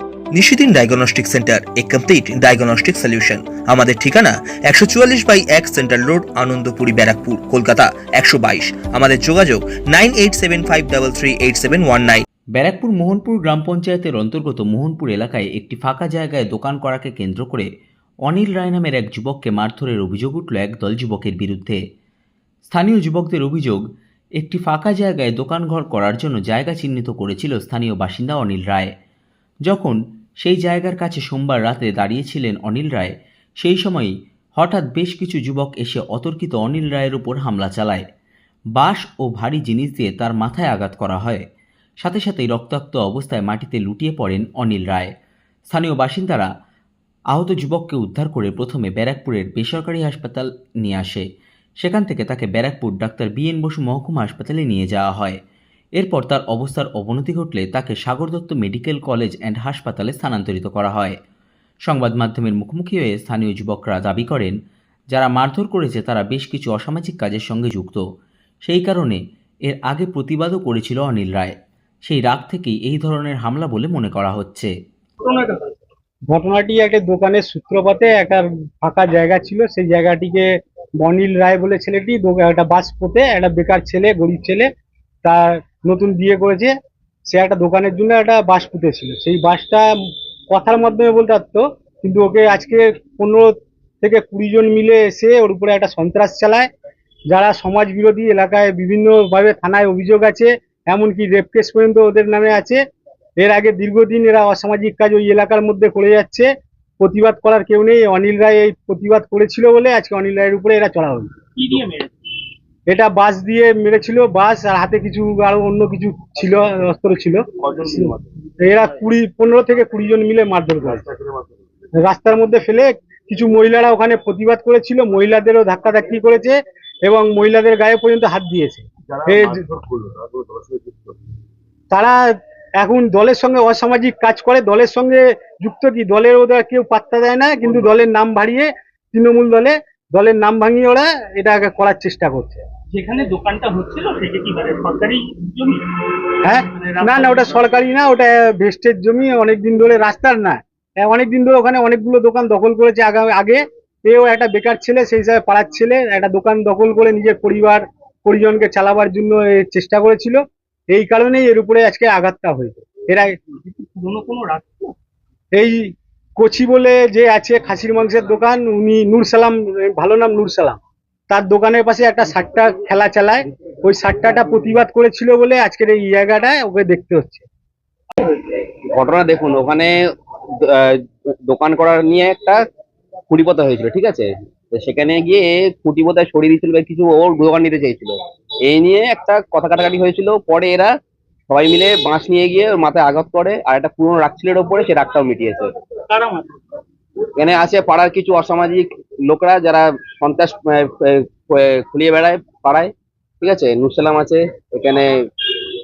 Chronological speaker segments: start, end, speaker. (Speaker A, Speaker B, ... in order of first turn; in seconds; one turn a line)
Speaker A: 0.3-12.2
Speaker B: 12.6-17.7
Speaker B: 18.2-21.8
Speaker B: 22.7-23.8
Speaker B: 24.4-28.9
Speaker B: 29.7-38.0
Speaker B: 38.8-41.4
Speaker B: 42.0-45.1
Speaker B: 45.7-46.5
Speaker B: 47.3-51.2
Speaker B: 51.8-55.4
Speaker B: 56.0-61.1
Speaker B: 61.9-64.5
Speaker B: 65.1-68.0
Speaker B: 68.7-71.5
Speaker B: 72.0-74.7
Speaker C: 75.2-75.7
Speaker D: 76.3-80.5
Speaker D: 81.0-84.7
Speaker D: 85.2-86.7
Speaker D: 87.3-89.9
Speaker D: 90.5-96.7
Speaker D: 97.3-102.8
Speaker D: 103.4-111.3
Speaker C: 111.6-112.1
Speaker D: 112.9-121.1
Speaker D: 122.0-129.7
Speaker D: 131.9-132.2
Speaker D: 132.8-142.6
Speaker C: 142.9-145.9
Speaker D: 146.4-163.3
Speaker C: 146.8-147.6
Speaker C: 163.6-164.9
Speaker D: 165.5-165.8
Speaker D: 166.4-170.8
Speaker D: 171.3-177.4
Speaker E: 178.9-179.9
Speaker E: 180.6-182.6
Speaker E: 183.3-190.9
Speaker E: 191.5-195.7
Speaker C: 196.1-196.6
Speaker E: 197.4-202.9
Speaker E: 203.4-205.6